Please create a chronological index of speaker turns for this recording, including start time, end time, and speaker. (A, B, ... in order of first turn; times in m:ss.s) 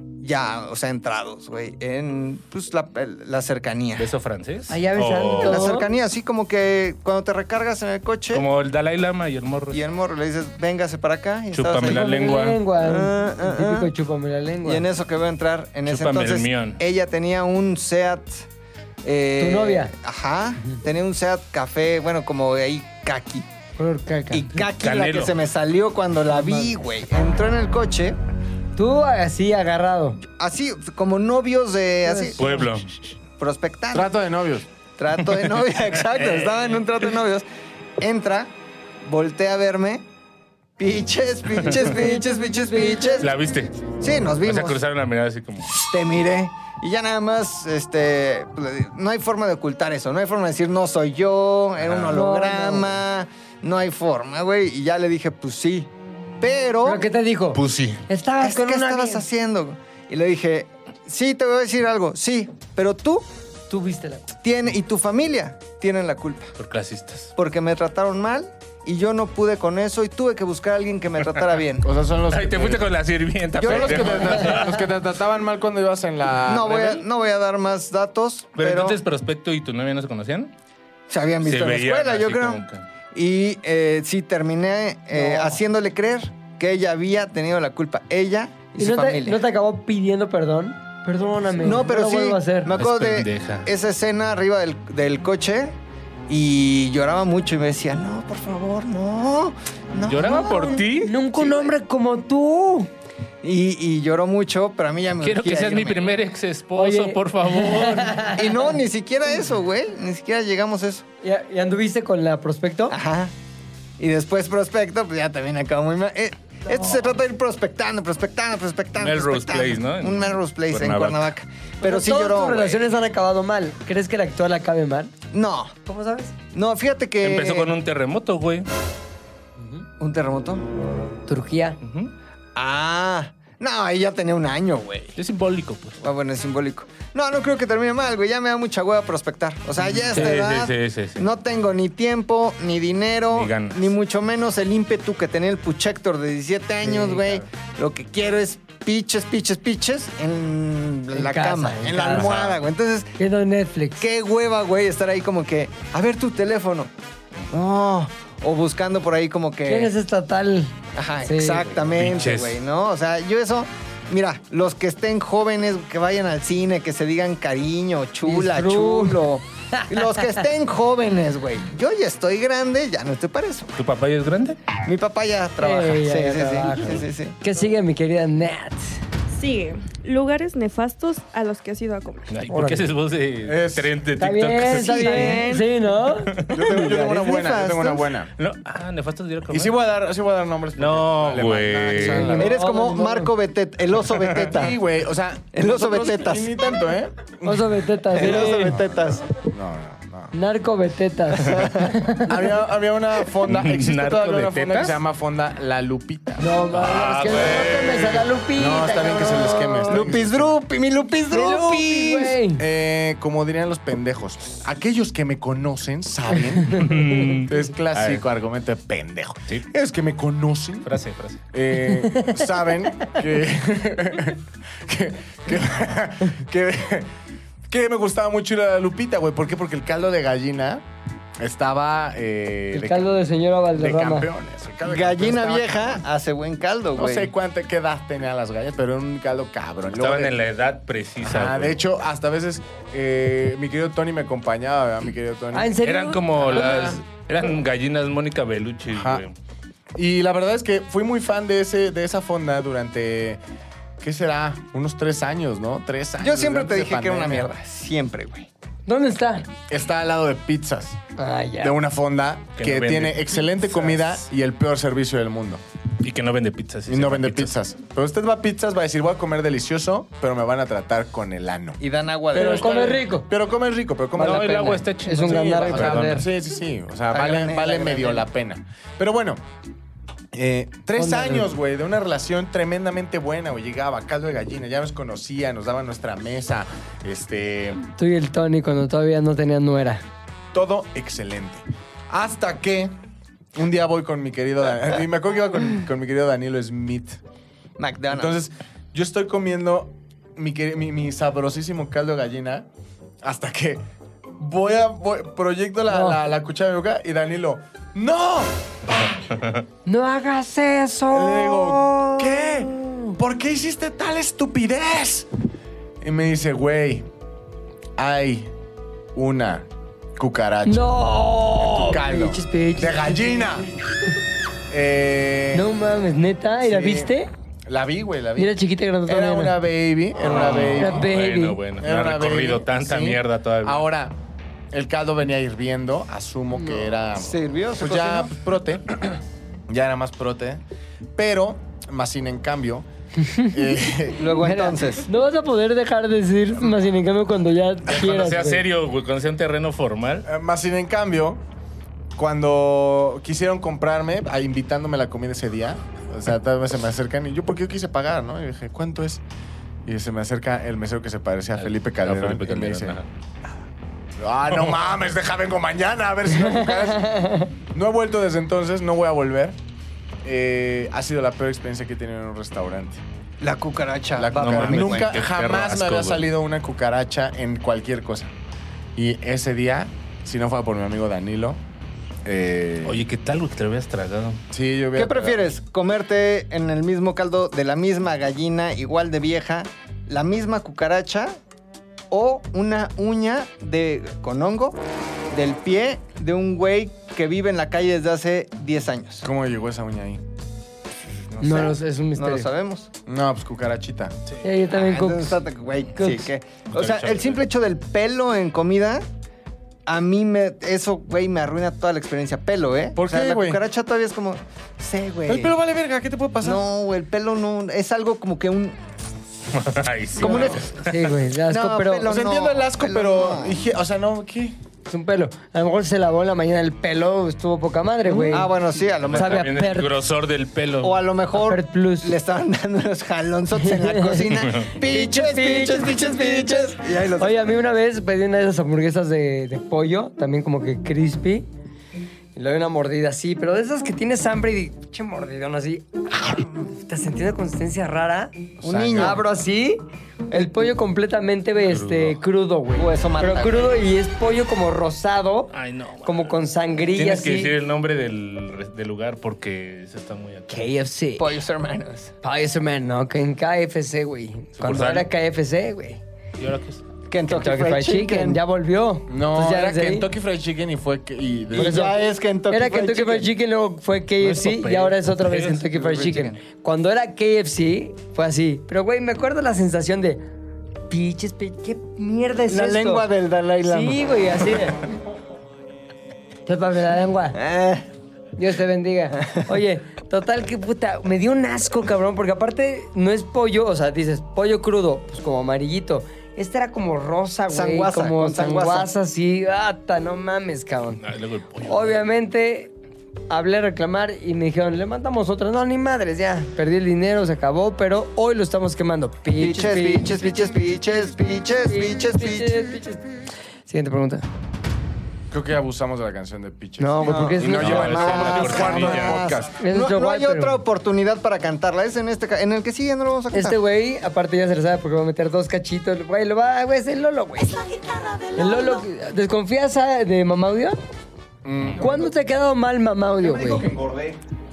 0:00.2-0:04.1 A
0:04.0-0:05.8 B
0:04.7-0:05.9 C
0:05.4-0:08.4 A
0:08.3-0:09.8 B
0:09.7-0:12.1 A
0:11.5-0:12.6 B
0:11.8-0:14.8 C
0:12.8-0:13.9 A
0:14.6-0:18.5 A
0:15.9-0:16.8 B
0:19.0-0:23.5 A
0:19.4-0:19.9 C
0:23.8-0:24.5 C
0:24.3-0:28.2 A
0:24.6-0:25.4 B
0:26.3-0:26.8 C
0:28.8-0:30.2 C
0:30.2-0:32.4 A
0:32.1-0:32.7 C
0:32.4-0:33.2 B
0:33.4-0:34.1 A
0:33.9-0:34.7 D
0:35.0-0:37.4 A
0:36.1-0:36.7 B
0:38.0-0:38.5 A
0:39.0-0:40.0 A
0:40.8-0:43.3 A
0:41.7-0:43.3 C
0:43.2-0:45.7 B
0:44.0-0:44.8 A
0:45.7-0:57.0 A
0:51.8-0:52.2 B
0:52.1-0:53.0 C
0:56.8-0:59.2 C
0:57.6-0:58.0 B
0:58.4-1:03.3 A
1:03.7-1:04.3 C
1:04.4-1:06.6 A
1:06.6-1:07.3 B
1:07.4-1:11.9 A
1:11.8-1:12.9 D
1:12.3-1:14.8 B
1:13.6-1:14.5 A
1:13.6-1:17.0 D
1:16.5-1:19.0 A
1:18.6-1:20.5 B
1:21.1-1:29.4 A
1:21.4-1:22.9 B
1:25.1-1:25.6 C
1:28.8-1:32.7 C
1:31.6-1:35.8 A
1:32.7-1:33.7 B
1:36.3-1:41.7 A
1:40.0-1:41.1 B
1:41.0-1:42.9 C
1:43.4-1:46.0 A
1:45.2-1:48.3 B
1:46.8-1:48.7 C
1:48.3-1:51.1 A
1:51.2-1:53.0 C
1:52.9-1:53.3 A
1:54.0-2:02.9 A
1:59.0-2:01.3 B
2:01.8-2:05.1 C
2:05.3-2:05.8 A
2:05.8-2:06.4 C
2:06.5-2:07.7 A
2:07.2-2:08.7 B
2:09.6-2:09.9 C
2:10.0-2:10.6 A
2:11.3-2:11.8 C
2:11.8-2:12.1 B
2:12.6-2:15.2 A
2:15.2-2:16.0 B
2:16.0-2:33.2 A
2:19.8-2:21.3 B
2:23.3-2:23.9 B
2:26.8-2:27.4 C
2:31.1-2:32.3 C
2:32.1-2:32.6 B
2:33.2-2:34.1 C
2:34.0-2:36.9 A
2:37.5-2:39.9 A
2:39.7-2:41.8 C
2:41.0-2:53.7 A
2:41.9-2:42.6 B
2:48.2-2:50.3 C
2:53.8-2:54.6 B
2:54.8-2:57.4 A
2:55.6-2:59.0 C
2:59.3-3:02.3 E
3:02.3-3:05.4 B
3:02.5-3:02.9 C
3:03.4-3:03.9 D
3:04.2-3:06.4 C
3:04.6-3:05.7 A
3:05.1-3:05.6 E
3:06.2-3:06.6 B
3:06.5-3:08.3 D
3:06.6-3:08.1 A
3:08.4-3:09.8 B
3:09.5-3:12.5 D
3:10.8-3:12.4 B
3:11.9-3:13.3 C
3:12.3-3:14.8 A
3:14.3-3:20.3 D
3:15.5-3:16.6 A
3:17.4-3:18.8 C
3:18.1-3:19.2 A
3:20.3-3:22.3 C
3:21.3-3:22.0 A
3:22.2-3:26.5 D
3:23.5-3:25.0 B
3:26.4-3:30.1 C
3:26.7-3:28.2 B
3:27.3-3:30.6 D
3:29.9-3:32.4 A
3:31.2-3:32.6 C
3:32.6-3:40.9 D
3:36.7-3:38.2 B
3:40.8-3:41.4 B
3:41.5-3:47.1 D
3:42.0-3:42.4 C
3:47.7-3:50.8 D
3:51.4-3:53.1 D
3:52.7-3:54.3 C
3:53.8-3:56.0 D
3:54.9-3:57.3 A
3:57.0-4:00.4 D
4:00.0-4:01.8 B
4:01.2-4:05.8 D
4:05.5-4:06.2 C
4:05.8-4:09.3 B
4:06.4-4:07.0 D
4:08.9-4:09.2 D
4:10.0-4:13.4 D
4:14.0-4:17.5 D
4:16.2-4:18.5 A
4:18.9-4:19.5 C
4:19.7-4:21.0 D
4:21.2-4:21.8 C
4:21.6-4:25.6 D
4:22.6-4:24.2 B
4:26.0-4:27.5 B
4:26.9-4:31.8 D
4:31.8-4:32.8 A
4:32.3-4:39.4 D
4:32.3-4:33.3 C
4:34.2-4:36.2 C
4:34.2-4:36.3 B
4:37.1-4:38.3 A
4:40.3-4:47.8 D
4:41.0-4:41.5 C
4:48.0-4:50.0 C
4:50.5-4:53.0 D
4:53.6-4:57.2 D
4:57.8-4:58.3 A
4:58.1-5:02.7 D
5:03.2-5:03.8 D
5:04.4-5:08.6 D
5:05.9-5:06.2 C
5:09.9-5:13.2 C
5:11.1-5:15.3 D
5:16.0-5:17.1 D
5:18.0-5:18.5 D
5:19.2-5:20.9 D
5:20.7-5:23.1 C
5:21.7-5:23.7 D
5:24.7-5:25.7 D
5:25.5-5:27.3 C
5:26.6-5:27.1 D
5:27.7-5:28.6 D
5:28.4-5:29.6 C
5:29.1-5:31.1 D
5:30.2-5:33.8 B
5:30.8-5:31.6 C
5:31.8-5:34.2 D
5:34.7-5:39.2 D
5:37.2-5:38.3 A
5:39.7-5:40.6 D
5:41.2-5:42.9 D
5:43.2-5:43.7 C
5:43.4-5:44.2 D
5:44.2-5:45.1 A
5:44.3-5:48.6 C
5:47.9-5:50.3 B
5:50.2-5:51.4 D
5:52.2-5:59.2 D
5:59.9-6:03.0 D
6:01.6-6:03.1 B
6:04.2-6:09.6 D
6:06.4-6:07.5 C
6:10.2-6:13.0 D
6:13.4-6:15.1 A
6:14.2-6:18.3 D
6:14.4-6:16.2 B
6:19.0-6:21.6 D
6:22.2-6:23.0 D
6:22.9-6:24.4 B
6:24.5-6:25.5 D
6:25.0-6:31.4 A
6:32.1-6:34.8 A
6:35.3-6:39.3 A
6:39.2-6:40.2 D
6:41.4-6:41.7 B
6:41.4-6:42.5 C
6:41.4-6:42.9 A
6:43.1-6:44.2 D
6:44.4-6:45.4 C
6:44.7-6:49.0 A
6:46.0-6:46.3 C
6:46.7-6:47.4 B
6:49.9-6:55.5 A
6:53.0-6:53.6 D
6:55.3-6:56.7 D
6:56.4-6:58.8 A
6:59.5-7:01.0 B
7:00.2-7:00.7 A
7:00.2-7:02.1 C
7:01.5-7:03.6 A
7:02.1-7:04.6 D
7:04.9-7:08.6 C
7:08.1-7:09.5 A
7:09.0-7:11.0 B
7:09.1-7:09.9 C
7:10.8-7:17.5 A
7:11.3-7:12.1 C
7:13.6-7:21.5 C
7:14.4-7:14.7 B
7:22.4-7:35.5 C
7:28.6-7:29.2 A
7:28.7-7:29.1 B
7:31.7-7:32.2 B
7:32.8-7:33.9 A
7:35.5-7:36.4 B
7:36.0-7:37.5 C
7:36.9-7:40.7 B
7:40.5-7:41.3 C
7:41.2-7:42.1 A
7:42.2-7:46.0 C
7:44.6-7:45.1 B
7:46.4-7:46.8 B
7:47.1-7:48.4 A
7:47.3-7:50.1 C
7:49.1-7:51.8 D
7:51.5-7:53.3 A
7:51.5-7:52.0 C
7:52.5-8:00.2 C
7:54.2-7:55.7 B
7:55.8-7:56.4 A
8:00.9-8:03.1 C
8:02.5-8:04.0 A
8:03.6-8:04.8 C
8:06.5-8:07.4 C
8:07.4-8:07.9 A
8:08.4-8:21.0 C
8:17.5-8:18.9 A
8:21.0-8:22.0 B
8:21.6-8:22.7 C
8:23.3-8:30.2 C
8:29.4-8:32.7 A
8:31.7-8:33.1 C
8:33.7-8:34.2 C
8:35.3-8:39.5 D
8:36.8-8:38.0 C
8:37.0-8:43.6 A
8:37.4-8:39.3 B
8:39.6-8:40.6 C
8:43.3-8:50.8 C
8:51.4-8:51.9 D
8:51.8-8:53.7 C